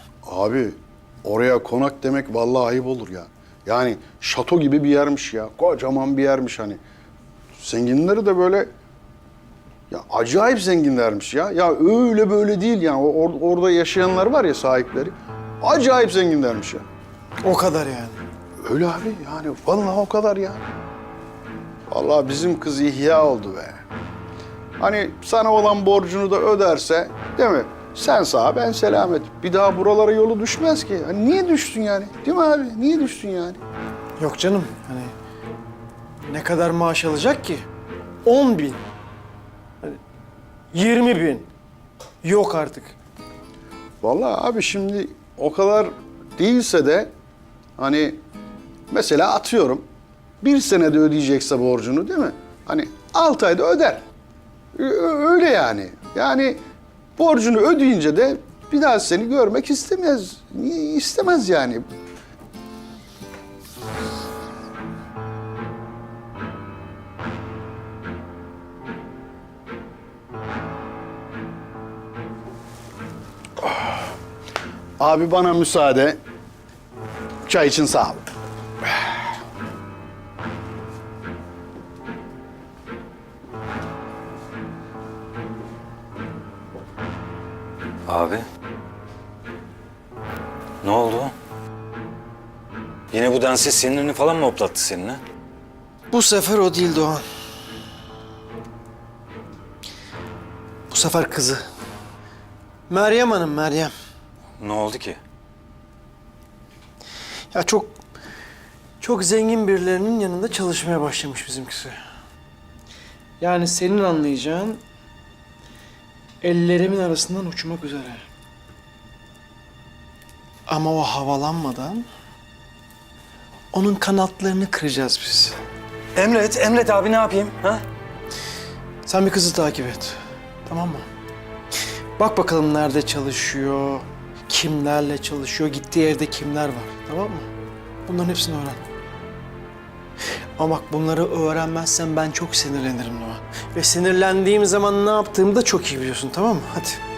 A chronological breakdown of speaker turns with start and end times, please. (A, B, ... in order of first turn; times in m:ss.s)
0:00.2-0:06.8 A
0:07.6-0:08.7 A
0:09.9-0:16.8 A
0:17.5-0:18.2 B
0:18.6-0:20.6 A
0:21.9-0:23.8 A
0:24.8-0:33.6 A
0:34.2-0:35.1 B
0:36.3-0:37.6 B
0:38.2-0:38.8 B
0:40.7-0:41.4 B
0:42.2-0:42.9 B
0:44.0-0:47.1 A
0:47.8-0:48.2 A
0:48.9-0:49.8 A
0:50.4-0:54.0 A
0:54.8-0:56.6 A
0:57.2-1:01.9 A
1:15.0-1:16.2 A
1:17.4-1:18.2 A
1:28.1-1:28.4 C
1:30.8-1:31.3 C
1:33.1-1:35.2 C
1:36.1-1:37.2 B
1:40.9-1:41.6 B
1:42.9-1:43.9 B
1:44.6-1:45.2 C
1:47.5-1:47.9 B
1:49.0-1:52.0 B
1:53.4-1:54.8 B
1:56.4-1:58.2 B
2:00.7-2:02.0 B
2:03.7-2:05.6 B
2:06.2-2:07.8 C
2:09.1-2:10.1 B
2:10.7-2:11.0 B
2:12.2-2:17.5 B
2:18.1-2:18.8 B
2:20.6-2:27.0 B